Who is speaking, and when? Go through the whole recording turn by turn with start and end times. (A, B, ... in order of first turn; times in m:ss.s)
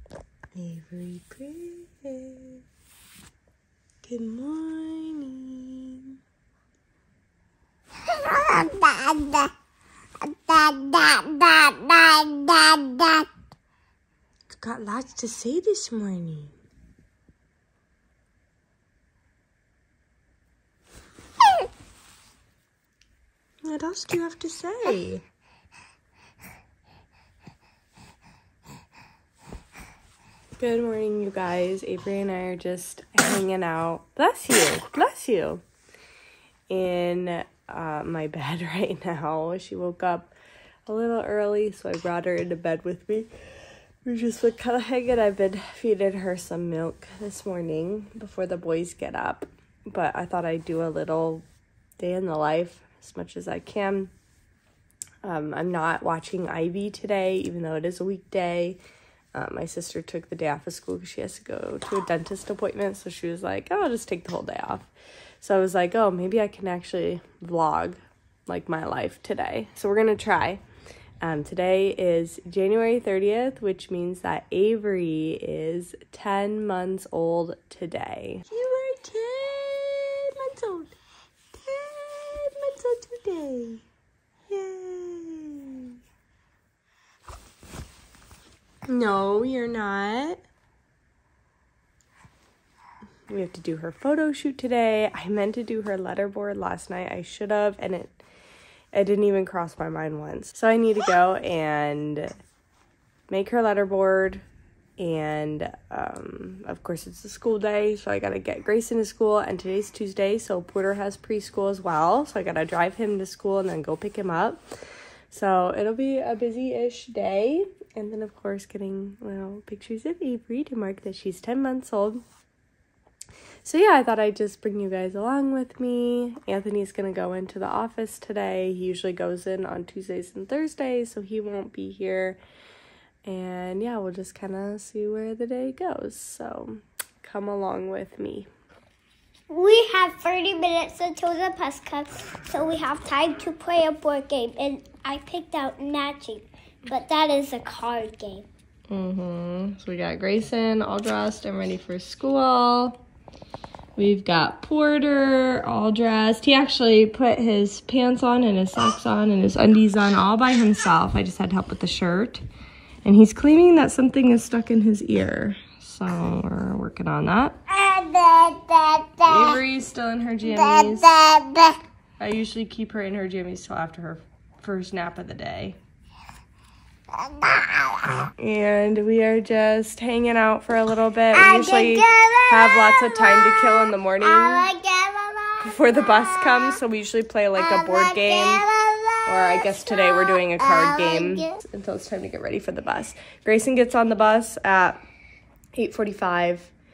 0:00.5-0:02.6 A
0:04.0-0:06.2 A
0:08.2-0:09.5 B
0:10.3-0:13.3 B
0:14.5-0:16.5 A
0:23.6-0:25.2 A
0:30.6-0:35.6 A
0:36.7-0:40.3 A
0:40.9-0:43.3 A
0:44.0-0:51.4 A
0:52.0-0:54.1 A
0:55.2-0:58.8 A
0:59.3-1:04.9 A
1:05.4-1:10.6 A
1:11.2-1:21.0 A
1:21.5-1:23.8 A
1:24.5-1:26.0 A
1:28.9-1:30.4 A
1:33.3-1:38.2 A
1:38.9-1:42.3 A
1:43.3-1:44.4 A
1:45.0-1:54.6 A
1:55.3-2:02.2 A
2:03.6-2:12.4 A
2:13.2-2:18.5 A
2:19.5-2:28.4 B
2:28.9-2:33.0 A
2:34.0-2:42.4 A
2:43.0-2:47.6 A
2:47.7-2:49.6 B
2:49.2-2:51.1 A
2:50.5-2:51.8 B
2:52.2-2:55.8 A
2:57.2-2:58.1 B
2:58.4-3:04.7 A
3:01.3-3:06.8 B
3:05.6-3:08.6 A
3:07.6-3:11.5 B
3:09.2-3:15.0 A
3:15.7-3:16.7 A